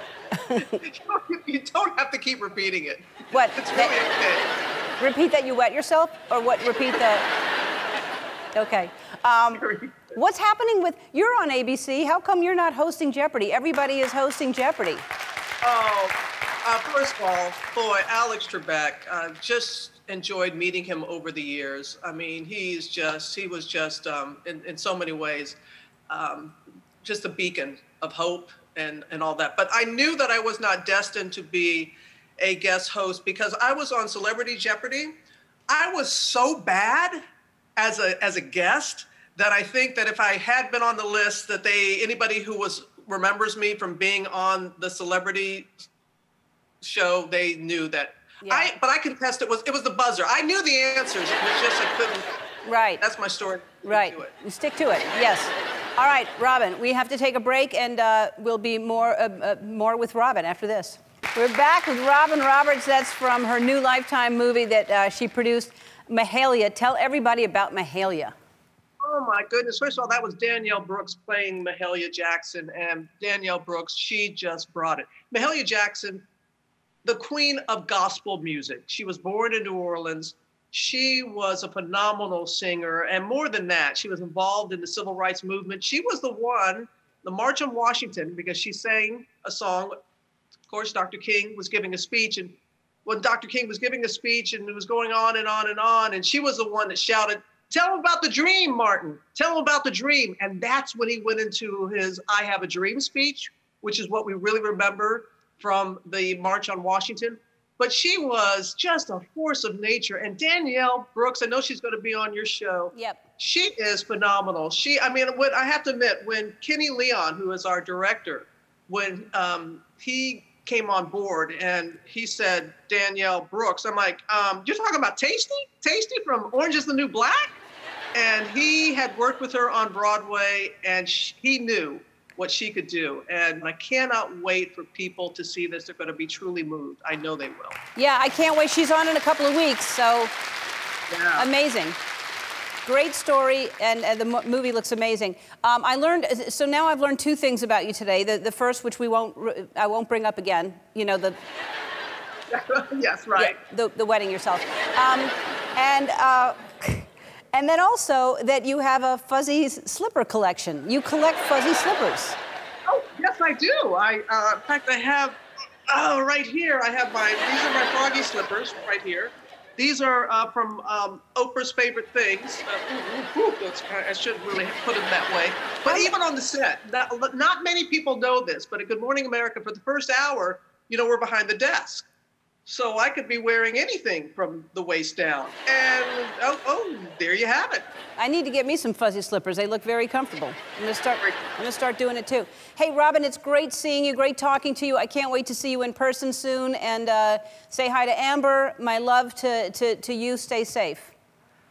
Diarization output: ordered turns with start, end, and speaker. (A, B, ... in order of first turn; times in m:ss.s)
0:00.4-0:00.7 A
0:00.5-0:04.5 B
0:03.3-0:03.9 A
0:05.0-0:07.3 A
0:08.5-0:15.0 A
0:09.5-0:10.2 B
0:15.6-0:25.6 B
0:26.1-0:35.1 B
0:35.7-0:37.2 B
0:37.8-0:45.7 B
0:46.8-0:52.3 B
0:48.4-0:48.7 A
0:52.6-0:53.0 A
0:53.0-0:54.3 B
0:53.8-1:08.3 A
1:09.0-1:16.2 B
1:17.0-1:29.9 B
1:30.7-1:32.5 B
1:33.0-2:07.5 B
1:52.9-1:53.2 A
2:08.1-2:17.8 B
2:18.0-2:20.3 A
2:21.1-2:21.5 B
2:21.4-2:22.0 A
2:22.8-2:31.4 A
2:32.5-2:33.6 B
2:33.4-2:42.4 A
2:42.9-3:02.1 B
3:02.6-3:07.8 B
3:08.2-3:21.1 A